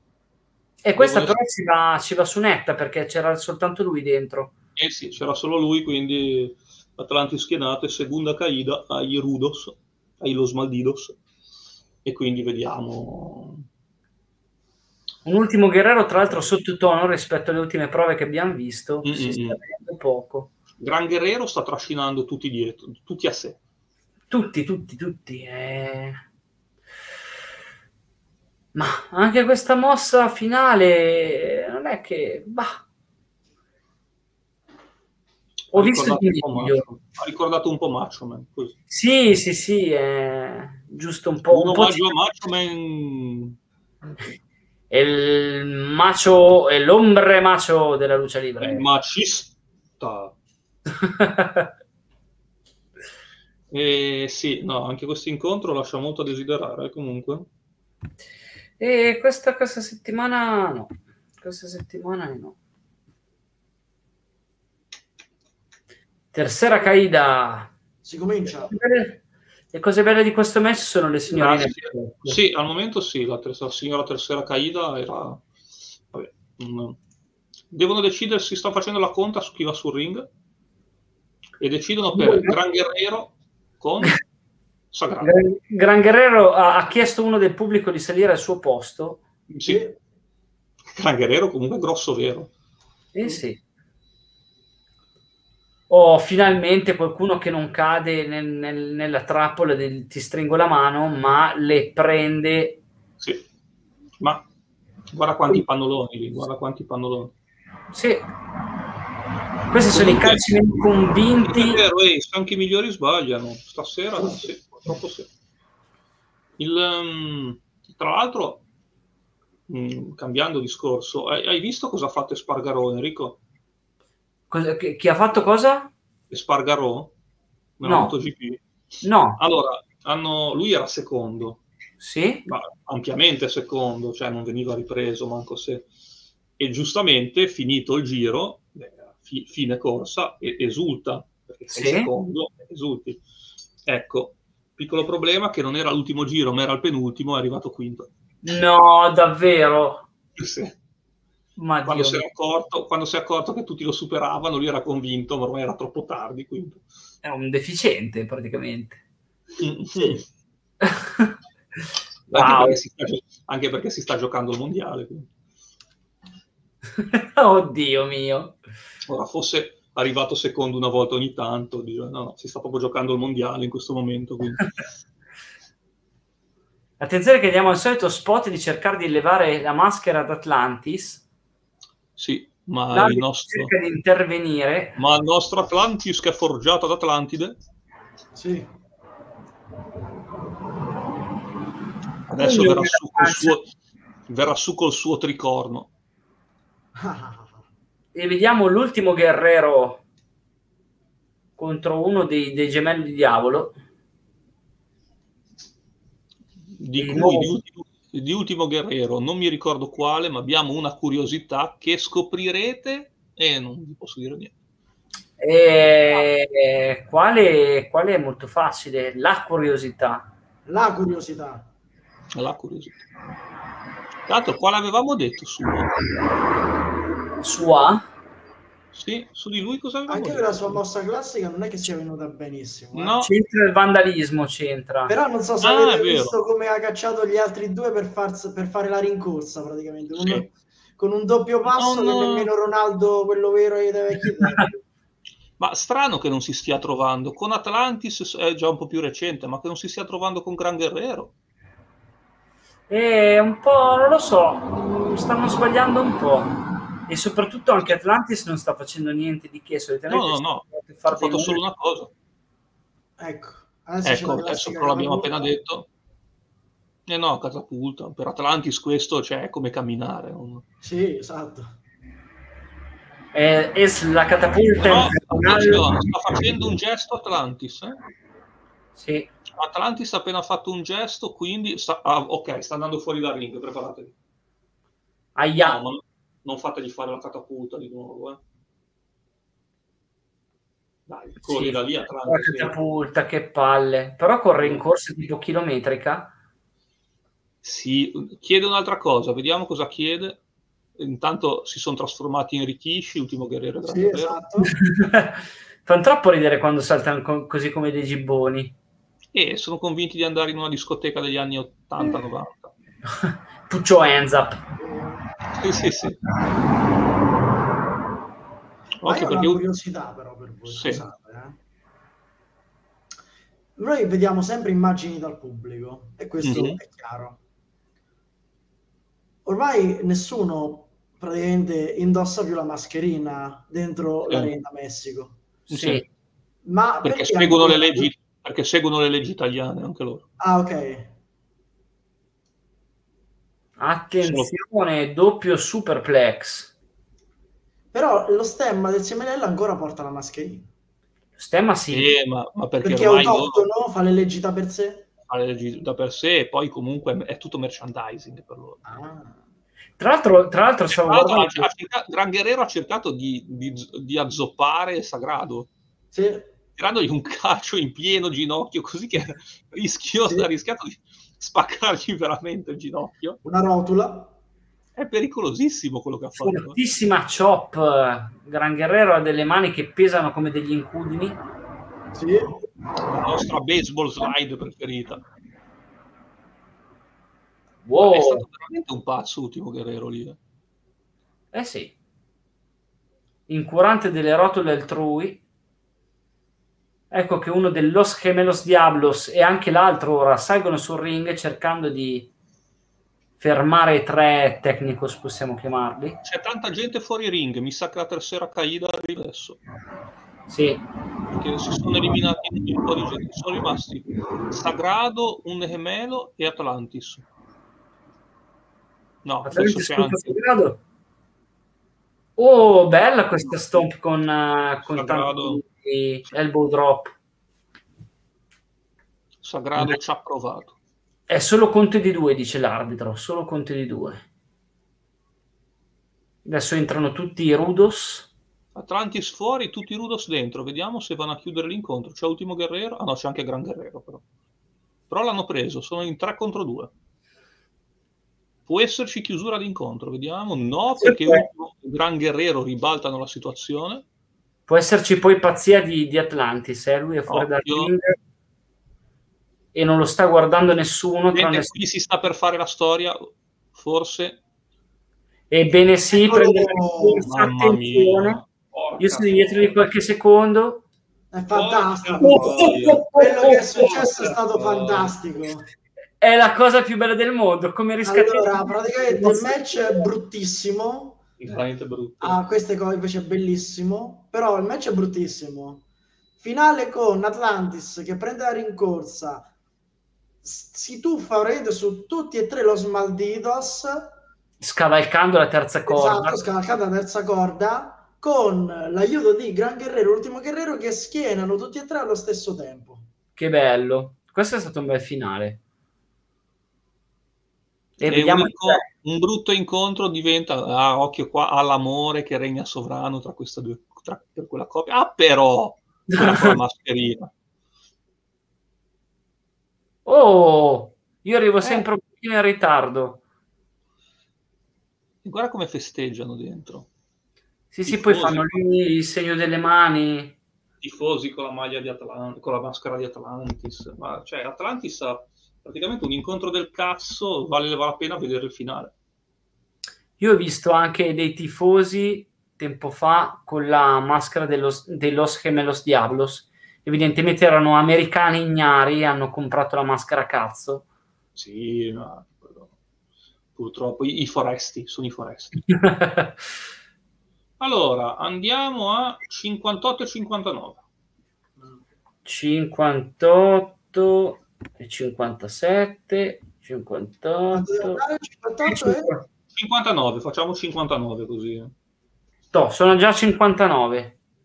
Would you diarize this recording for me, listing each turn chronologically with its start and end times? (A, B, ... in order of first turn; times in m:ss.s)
0:00.8-0:04.5 A
0:01.0-0:01.4 B
0:04.8-0:11.2 B
0:12.0-0:13.6 B
0:15.2-0:20.5 A
0:19.0-0:19.6 B
0:20.8-0:23.6 B
0:24.3-0:26.2 A
0:28.8-0:32.8 A
0:35.7-0:38.8 B
0:35.8-0:36.8 A
0:38.9-0:42.1 A
0:41.5-0:43.6 B
0:44.9-0:48.9 A
0:48.6-0:50.3 B
0:51.0-0:51.7 A
0:53.7-0:57.5 B
0:58.8-1:02.6 A
1:06.3-1:07.7 A
1:08.0-1:08.7 C
1:08.6-1:09.2 A
1:09.7-1:12.4 A
1:11.3-1:15.4 B
1:16.1-1:17.0 B
1:17.7-1:20.3 B
1:21.6-1:24.2 B
1:22.2-1:22.5 A
1:24.9-1:25.3 B
1:25.2-1:29.2 A
1:29.5-1:29.8 B
1:29.6-1:30.0 C
1:30.9-1:32.5 B
1:33.1-1:33.6 A
1:35.9-1:42.8 A
1:44.2-1:44.4 B
1:45.1-1:47.3 B
1:47.9-1:48.2 A
1:49.7-1:51.8 A
1:49.9-1:50.4 B
1:51.4-1:55.3 B
1:56.6-1:58.6 B
1:59.7-2:03.4 B
2:04.5-2:05.9 A
2:06.3-2:07.1 B
2:07.8-2:08.6 B
2:07.8-2:08.2 A
2:09.0-2:09.4 A
2:09.4-2:11.6 B
2:12.0-2:12.4 A
2:12.5-2:15.9 B
2:16.6-2:23.2 B
2:21.7-2:22.1 A
2:23.9-2:28.1 B
2:28.4-2:30.1 A
2:30.4-2:30.8 B
2:31.6-2:32.2 A
2:31.8-2:36.8 B
2:37.2-2:39.0 A
2:39.6-2:40.2 B
2:40.8-2:41.3 A
2:42.3-2:42.8 A
2:42.3-2:45.3 B
2:47.0-2:48.6 A
2:49.1-2:54.7 B
2:57.0-3:01.2 A
3:02.2-3:03.7 B
3:02.9-3:05.0 A
3:05.0-3:07.6 B
3:08.3-3:08.7 C
3:12.3-3:13.7 B
3:12.4-3:13.6 A
3:14.3-3:15.9 B
3:17.0-3:17.6 C
3:18.1-3:20.0 A
3:21.6-3:23.8 A
3:26.8-3:34.5 B
3:27.0-3:27.5 A
3:35.4-3:40.3 A
3:40.7-3:41.7 C
3:42.3-3:43.1 B
3:44.3-3:45.9 B
3:47.4-3:48.0 A
3:48.9-3:50.8 B
3:50.1-3:53.2 C
3:52.9-3:53.3 B
3:53.2-3:55.1 A
3:55.1-4:04.8 C
3:55.6-3:56.4 B
4:00.2-4:00.4 B
4:01.7-4:02.5 B
4:05.6-4:11.3 B
4:12.9-4:16.5 A
4:17.1-4:21.6 A
4:20.1-4:22.1 B
4:23.2-4:25.5 C
4:24.0-4:25.9 B
4:27.1-4:30.6 B
4:30.8-4:31.7 C
4:33.3-4:35.9 A
4:34.8-4:38.0 B
4:39.0-4:39.3 A
4:39.6-4:44.1 B
4:45.4-4:45.8 A
4:45.6-4:48.4 B
4:51.1-4:52.7 B
4:51.4-4:56.3 A
4:57.6-5:00.4 B
5:01.0-5:04.4 B
5:03.9-5:04.7 C
5:04.8-5:08.8 A
5:09.3-5:12.7 B
5:13.1-5:14.6 A
5:14.8-5:15.2 C
5:15.5-5:16.2 B
5:19.0-5:19.6 B
5:19.1-5:21.6 C
5:20.7-5:21.0 B
5:23.8-5:27.4 C
5:26.4-5:26.8 B
5:29.4-5:35.4 C
5:35.7-5:36.0 A
5:35.7-5:36.0 B
5:36.6-5:38.1 C
5:37.0-5:40.2 B
5:40.4-5:41.1 C
5:43.8-5:46.7 A
5:44.2-5:44.5 B
5:47.9-5:50.7 C
5:51.4-5:52.1 A
5:51.9-5:53.6 B
5:52.8-5:55.1 C
5:55.3-5:58.9 B
5:58.9-5:59.4 C
6:00.0-6:01.7 A
6:00.9-6:05.7 B
6:06.1-6:06.5 C
6:06.8-6:13.4 B
6:13.4-6:14.3 C
6:15.0-6:16.8 B
6:16.4-6:21.4 A
6:22.1-6:22.6 C
6:23.1-6:25.2 B
6:27.8-6:28.4 A
6:28.0-6:30.4 B
6:31.5-6:31.9 A
6:33.5-6:35.4 A
6:37.1-6:42.3 A
6:43.4-6:46.2 A
6:46.2-6:49.6 B
6:50.5-6:50.8 A
6:51.3-6:57.2 B
6:59.2-7:00.4 B
6:59.4-7:00.8 A
7:02.4-7:07.1 A
7:04.9-7:05.6 B
7:09.4-7:10.8 B
7:11.3-7:14.2 A
7:16.4-7:18.3 A
7:18.8-7:24.2 B
7:25.1-7:26.9 B
7:28.7-7:34.0 B
7:31.0-7:31.5 A
7:34.7-7:38.2 A
7:37.3-7:37.9 B
7:39.7-7:41.7 A
7:41.3-7:44.4 B
7:45.5-7:48.4 A
7:46.1-7:47.3 C
7:47.2-7:49.7 B
7:49.0-7:50.8 A
7:51.3-7:55.6 C
7:51.5-7:53.0 B
7:52.2-7:54.1 A
7:53.8-7:55.1 B
7:56.2-8:00.0 A
7:58.0-8:01.2 C
8:01.4-8:02.4 B
8:02.2-8:05.8 C
8:06.4-8:09.5 C
8:10.4-8:14.1 C
8:14.6-8:16.4 A
8:15.9-8:23.0 C
8:23.4-8:25.6 A
8:28.0-8:28.8 A
8:28.1-8:37.3 B
8:36.1-8:36.6 A
8:40.1-8:43.2 A
8:45.2-8:46.9 B
8:47.7-8:50.4 A
8:47.8-8:48.6 B
8:50.8-8:58.9 B
9:00.2-9:10.8 A
9:11.4-9:12.7 B
9:13.6-9:15.6 B
9:15.7-9:16.4 A
9:17.6-9:20.8 B
9:22.3-9:28.0 A
9:27.5-9:29.1 C
9:28.7-9:29.2 A
9:29.6-9:31.7 B
9:32.5-9:34.2 A